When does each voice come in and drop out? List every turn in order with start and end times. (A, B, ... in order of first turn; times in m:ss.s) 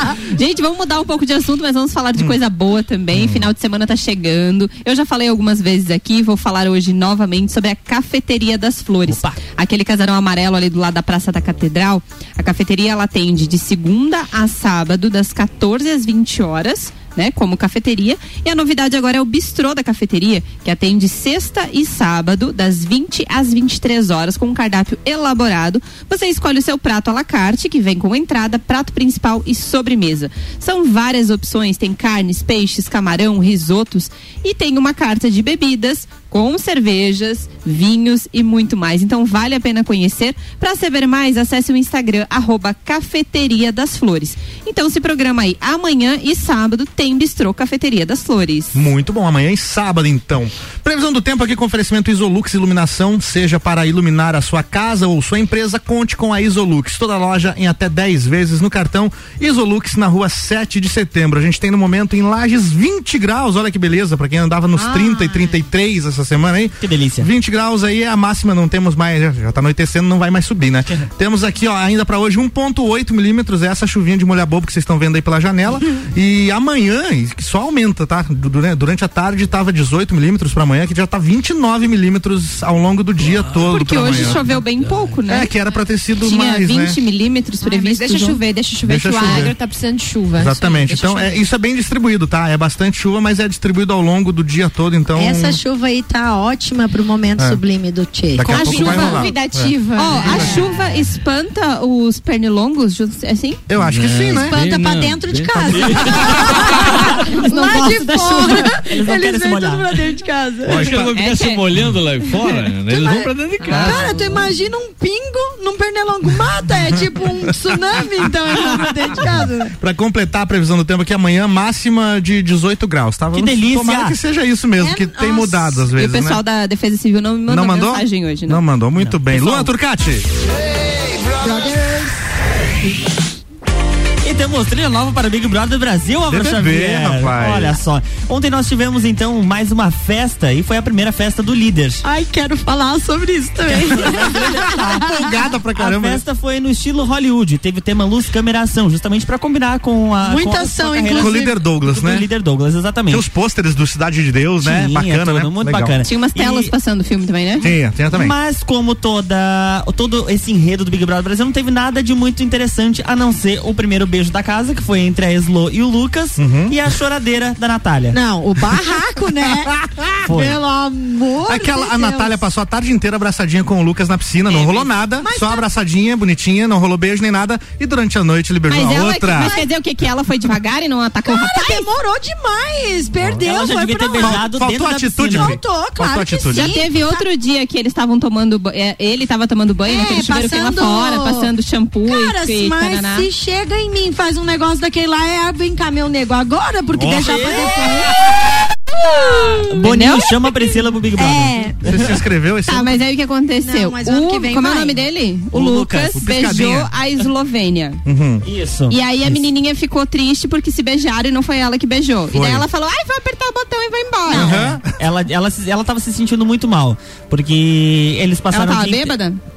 0:00.3-0:48.8 A
0:03.1-0:03.5 B
0:48.7-1:24.4 B
1:04.8-1:05.6 C
1:06.8-1:07.3 D
1:23.2-1:25.2 E
1:23.7-1:25.5 A
1:25.3-1:27.0 B
1:26.2-1:28.4 A
1:27.6-1:31.4 C
1:28.8-1:29.5 B
1:30.4-1:35.6 B
1:35.1-1:39.1 F
1:38.3-1:40.6 B
1:38.5-1:39.4 A
1:38.5-1:40.7 C
1:39.9-1:43.6 A
1:43.7-1:44.6 B
1:43.8-1:46.4 E
1:44.3-1:51.0 F
1:47.3-1:50.0 D
1:50.6-1:51.1 B
1:50.6-1:54.4 E
1:51.1-1:51.6 A
1:52.9-1:59.7 F
1:53.6-1:54.0 A
1:59.8-2:06.4 B
2:03.3-2:04.2 D
2:04.8-2:05.8 F
2:05.9-2:08.6 A
2:07.5-2:10.2 B
2:09.0-2:09.7 D
2:11.4-2:12.2 F
2:14.2-2:22.0 D
2:16.3-2:17.8 B
2:22.0-2:25.4 F
2:23.8-2:25.0 D
2:24.9-2:26.2 B
2:25.8-2:33.2 D
2:30.2-2:31.6 F
2:31.2-2:32.3 B
2:33.1-2:36.0 B
2:34.6-2:36.7 D
2:36.0-2:37.7 A
2:37.6-2:38.3 B
2:38.1-2:48.2 D
2:46.4-2:46.7 B
2:48.1-2:52.4 F
2:50.2-2:50.6 D
2:51.4-2:59.6 B
2:54.5-2:54.9 D
2:55.2-2:55.6 F
2:58.7-3:01.9 A
3:01.2-3:04.4 F
3:03.2-3:03.4 B
3:03.4-3:05.6 D
3:04.2-3:06.7 B
3:05.2-3:07.2 F
3:06.5-3:13.3 A
3:09.9-3:11.5 F
3:12.0-3:18.2 F
3:16.9-3:18.0 B
3:19.3-3:20.2 F
3:19.7-3:22.1 D
3:19.9-3:20.3 A
3:21.2-3:21.8 F
3:21.8-3:23.0 B
3:22.6-3:28.0 A
3:23.6-3:25.0 F
3:25.6-3:26.1 D
3:25.6-3:26.9 B
3:28.0-3:28.4 B
3:28.4-3:29.3 D
3:28.9-3:34.6 A
3:32.3-3:32.6 B
3:34.3-3:34.9 B
3:34.3-3:39.1 D
3:38.5-3:39.4 A